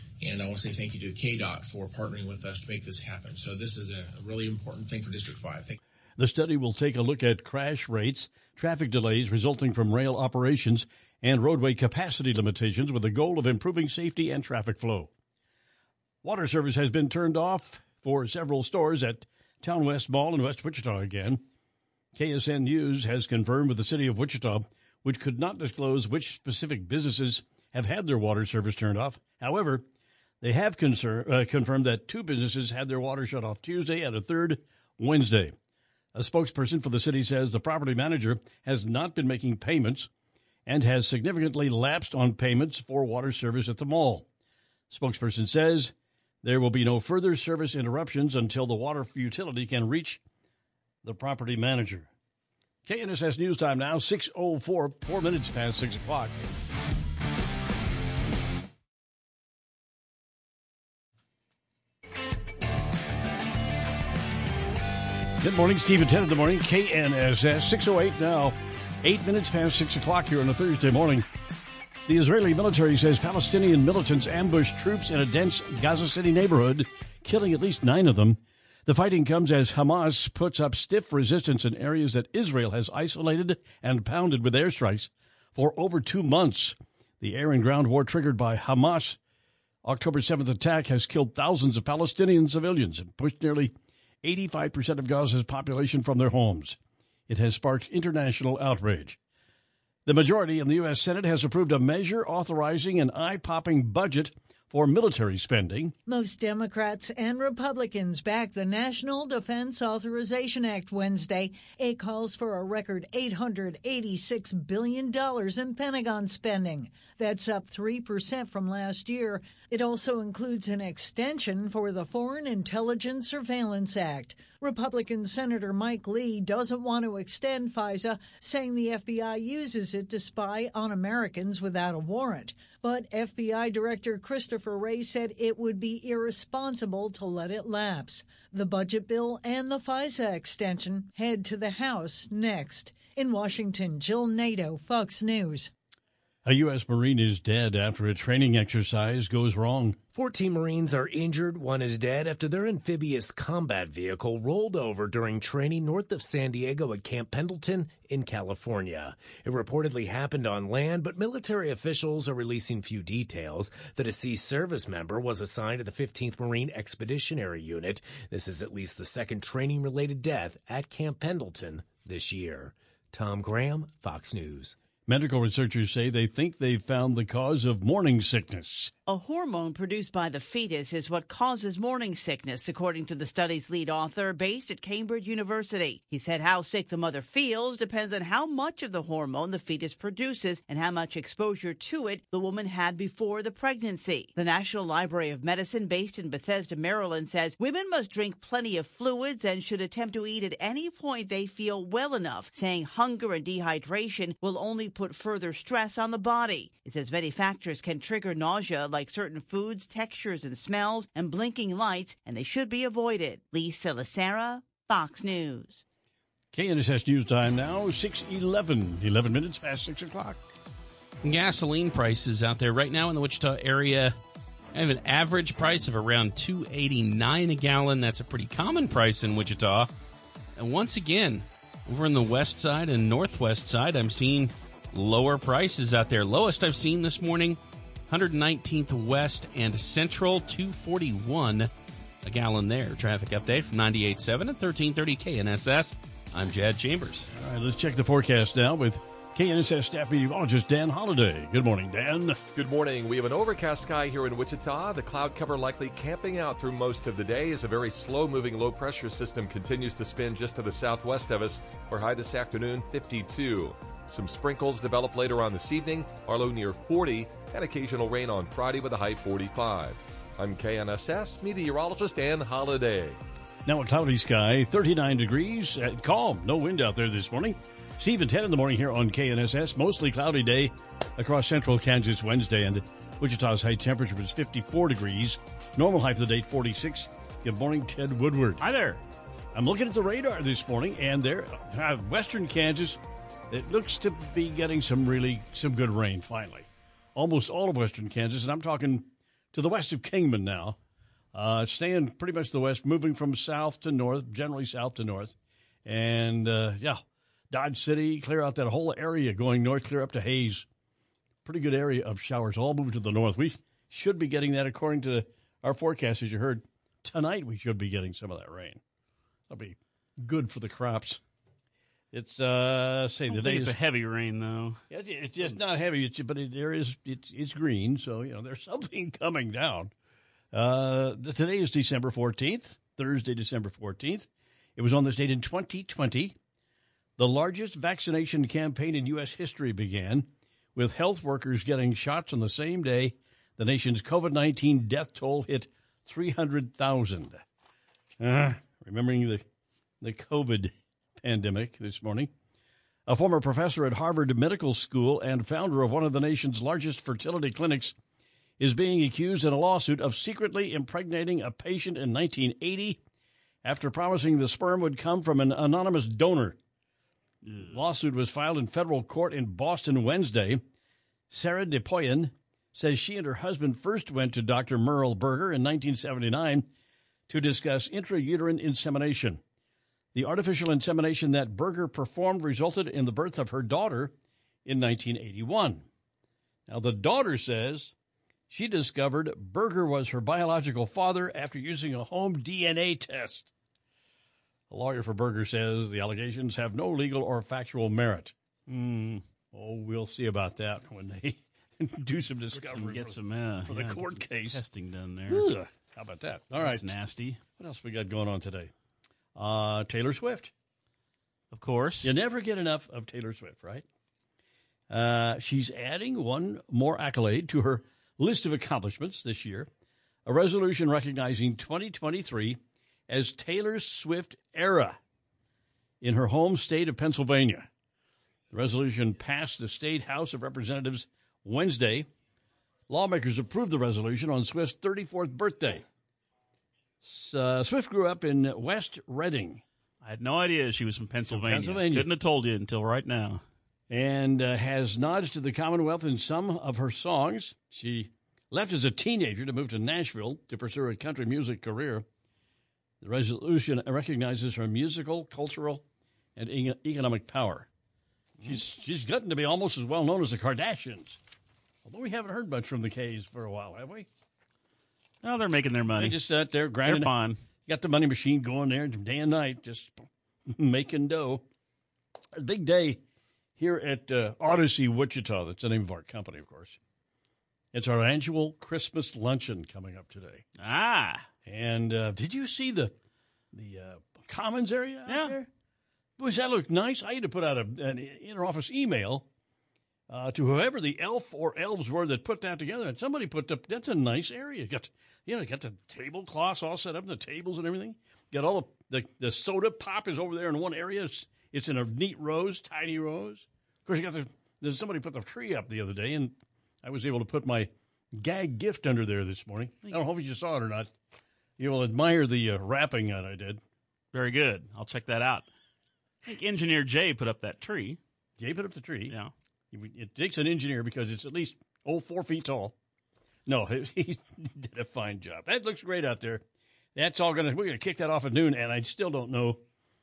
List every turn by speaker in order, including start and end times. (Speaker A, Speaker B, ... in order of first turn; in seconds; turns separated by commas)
Speaker A: 0.2-5.8, Speaker B: 6.2-15.1, Speaker B: 16.2-21.4, Speaker B: 22.1-29.9, Speaker B: 30.4-35.5, Speaker B: 36.1-40.1, Speaker B: 40.7-44.3, Speaker B: 44.9-50.2, Speaker B: 51.0-52.1, Speaker B: 52.9-56.4, Speaker B: 65.4-71.3, Speaker B: 72.1-89.2, Speaker B: 89.8-96.8, Speaker B: 97.3-99.2, Speaker B: 100.1-106.0, Speaker C: 106.1-145.7, Speaker B: 146.4-150.0, Speaker D: 150.1-174.8, Speaker B: 175.1-178.9, Speaker E: 179.1-215.8, Speaker B: 216.5-220.5, Speaker F: 221.2-224.2, Speaker F: 224.7-229.9, Speaker F: 230.6-241.7, Speaker F: 242.2-247.3, Speaker B: 247.3-252.4, Speaker G: 252.6-273.2, Speaker B: 273.7-288.6, Speaker H: 288.6-289.0, Speaker B: 289.5-300.8, Speaker B: 301.3-310.7, Speaker B: 311.4-318.8, Speaker B: 319.5-321.2, Speaker B: 322.1-323.8, Speaker H: 323.3-324.8, Speaker B: 324.9-329.9, Speaker H: 325.4-325.7, Speaker B: 330.5-336.4, Speaker B: 337.2-347.4, Speaker B: 348.2-349.4, Speaker B: 350.0-352.3, Speaker B: 353.1-357.9, Speaker B: 358.6-363.0, Speaker B: 363.6-366.6, Speaker H: 367.4-367.8, Speaker B: 367.7-370.6, Speaker B: 371.3-376.7, Speaker B: 377.3-379.4, Speaker B: 380.1-384.1, Speaker B: 384.6-385.9, Speaker B: 386.7-387.9, Speaker B: 388.5-393.5, Speaker B: 394.7-398.3, Speaker H: 398.7-399.2, Speaker B: 399.5-404.6, Speaker H: 402.5-405.5, Speaker B: 405.3-406.9, Speaker H: 406.6-407.4, Speaker B: 407.5-408.7, Speaker B: 409.4-410.5, Speaker H: 411.5-412.1, Speaker B: 412.0-413.9, Speaker B: 414.9-419.7, Speaker B: 420.3-425.0, Speaker B: 426.0-427.7, Speaker B: 428.5-432.1, Speaker B: 432.9-435.8, Speaker B: 437.0-439.6, Speaker H: 440.0-443.4, Speaker B: 441.3-442.1, Speaker B: 443.9-452.1, Speaker B: 453.0-455.8, Speaker B: 456.4-457.7, Speaker B: 458.4-461.2, Speaker B: 461.9-464.1, Speaker H: 465.2-466.2, Speaker B: 466.0-471.4, Speaker H: 466.9-467.4, Speaker B: 472.3-473.0, Speaker B: 473.6-476.8, Speaker B: 477.7-480.4, Speaker H: 480.6-481.3, Speaker B: 481.4-482.9, Speaker B: 483.5-485.5, Speaker H: 485.1-485.4, Speaker B: 486.2-489.3, Speaker B: 490.1-510.9, Speaker B: 511.6-513.6, Speaker H: 514.1-515.5, Speaker H: 516.2-518.0, Speaker B: 518.4-519.2, Speaker B: 519.7-522.8, Speaker B: 523.5-526.4, Speaker B: 527.0-529.6